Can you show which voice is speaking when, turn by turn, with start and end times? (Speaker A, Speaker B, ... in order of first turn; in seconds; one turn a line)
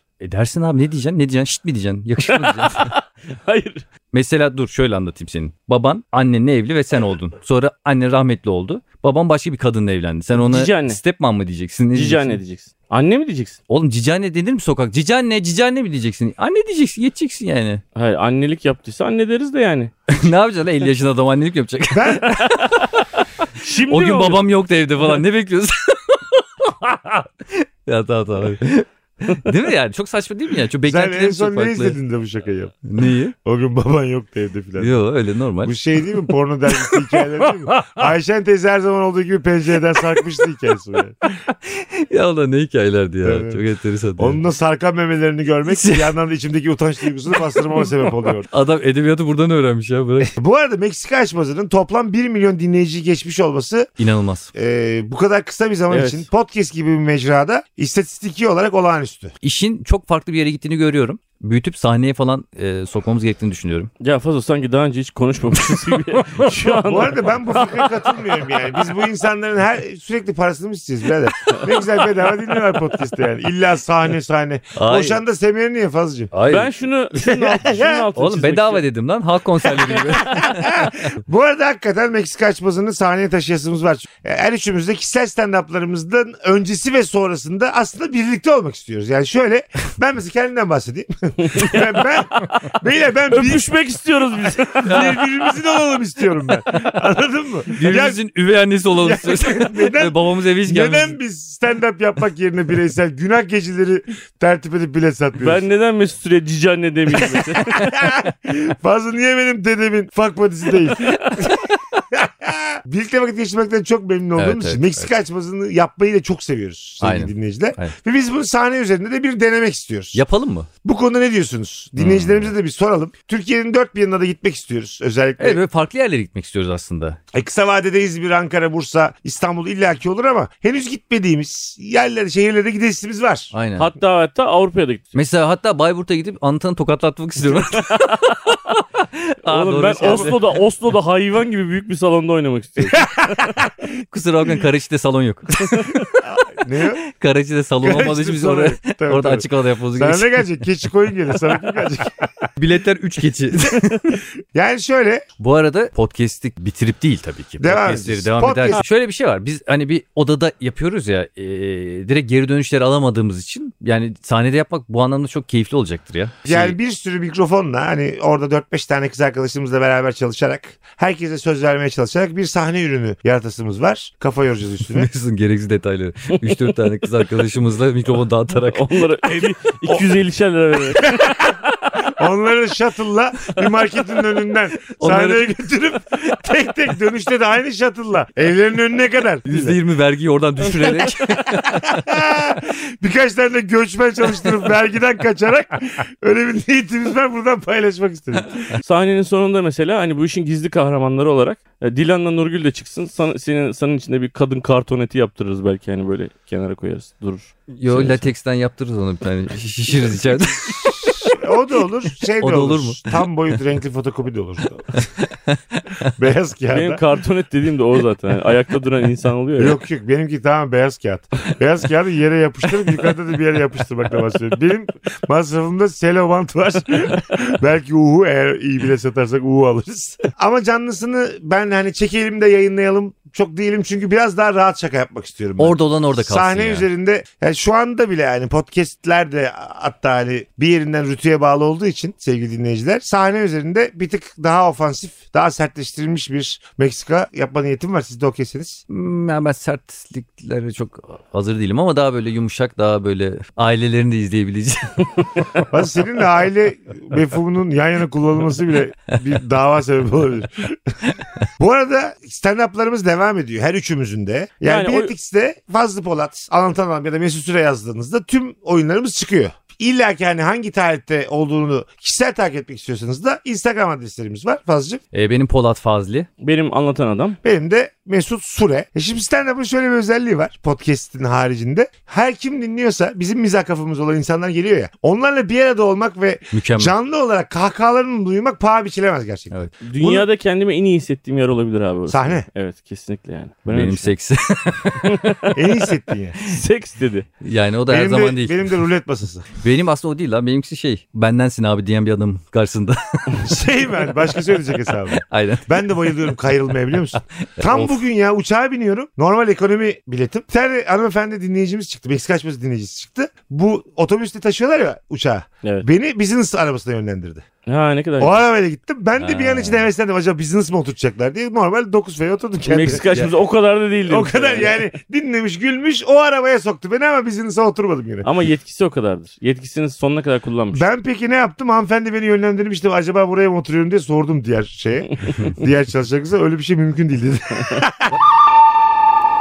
Speaker A: 0.2-2.9
Speaker B: 2.3-3.8
Speaker A: 4.1-12.4
Speaker B: 10.3-11.0
Speaker B: 11.9-13.6
Speaker A: 13.7-17.8
Speaker B: 17.9-19.9
Speaker A: 20.1-23.1
Speaker C: 21.9-22.3
Speaker B: 22.5-22.8
Speaker B: 23.6-24.4
Speaker A: 23.9-32.0
Speaker C: 30.8-32.8
Speaker A: 32.9-33.3
Speaker C: 33.4-34.9
Speaker A: 34.8-35.7
Speaker C: 35.6-41.2
Speaker A: 36.9-37.9
Speaker A: 41.4-44.4
Speaker C: 43.2-43.6
Speaker C: 44.2-48.5
Speaker A: 45.7-46.1
Speaker A: 48.5-50.3
Speaker C: 50.3-53.9
Speaker A: 54.0-54.5
Speaker C: 54.5-59.3
Speaker B: 55.9-56.2
Speaker A: 59.4-63.9
Speaker B: 64.0-68.1
Speaker C: 66.8-76.3
Speaker A: 74.7-75.2
Speaker A: 76.3-76.7
Speaker B: 76.5-78.8
Speaker C: 77.1-78.1
Speaker A: 78.1-81.1
Speaker C: 79.8-93.6
Speaker B: 91.4-92.7
Speaker B: 93.3-95.3
Speaker C: 94.8-98.2
Speaker A: 94.8-95.2
Speaker A: 97.7-101.2
Speaker C: 98.9-105.6
Speaker B: 105.4-107.8
Speaker C: 107.3-120.2
Speaker A: 114.4-115.1
Speaker A: 117.0-118.0
Speaker A: 120.1-120.7
Speaker C: 120.8-125.6
Speaker A: 122.0-122.5
Speaker A: 125.4-127.2
Speaker C: 127.3-133.5
Speaker A: 133.5-133.9
Speaker B: 133.8-135.1
Speaker A: 135.1-140.4
Speaker B: 137.7-138.2
Speaker B: 139.4-143.5
Speaker C: 140.0-140.3
Speaker C: 142.8-143.7
Speaker A: 144.1-146.0
Speaker C: 146.2-147.0
Speaker A: 147.0-150.6
Speaker C: 147.8-152.3
Speaker A: 152.6-154.2
Speaker C: 154.5-155.2
Speaker A: 155.4-166.8
Speaker C: 157.6-158.8
Speaker C: 166.4-175.1
Speaker A: 174.9-179.0
Speaker B: 178.7-181.6
Speaker C: 181.0-181.5
Speaker C: 182.1-189.8
Speaker A: 185.0-185.6
Speaker A: 189.4-192.1
Speaker C: 191.7-198.6
Speaker B: 198.8-208.2
Speaker A: 207.7-211.3
Speaker C: 211.0-215.1
Speaker A: 212.4-213.2
Speaker A: 215.0-216.1
Speaker C: 216.2-217.0
Speaker B: 216.7-219.8
Speaker C: 219.6-248.8
Speaker A: 235.6-236.9
Speaker A: 248.9-255.1
Speaker C: 255.7-261.0
Speaker C: 261.6-275.0
Speaker B: 264.6-265.1
Speaker A: 275.1-276.3
Speaker B: 276.4-277.4
Speaker C: 277.4-290.3
Speaker A: 286.5-286.9
Speaker B: 289.8-294.1
Speaker C: 292.1-292.4
Speaker A: 293.7-295.1
Speaker B: 295.0-295.6
Speaker C: 295.5-296.4
Speaker B: 296.4-297.3
Speaker A: 297.4-298.7
Speaker C: 297.9-299.5
Speaker A: 299.6-303.5
Speaker C: 303.4-317.4
Speaker A: 305.2-306.1
Speaker A: 307.6-308.0
Speaker B: 317.7-318.4
Speaker C: 318.2-323.2
Speaker A: 319.2-319.8
Speaker B: 322.6-324.8
Speaker C: 324.1-328.3
Speaker B: 328.2-330.8
Speaker C: 330.7-338.2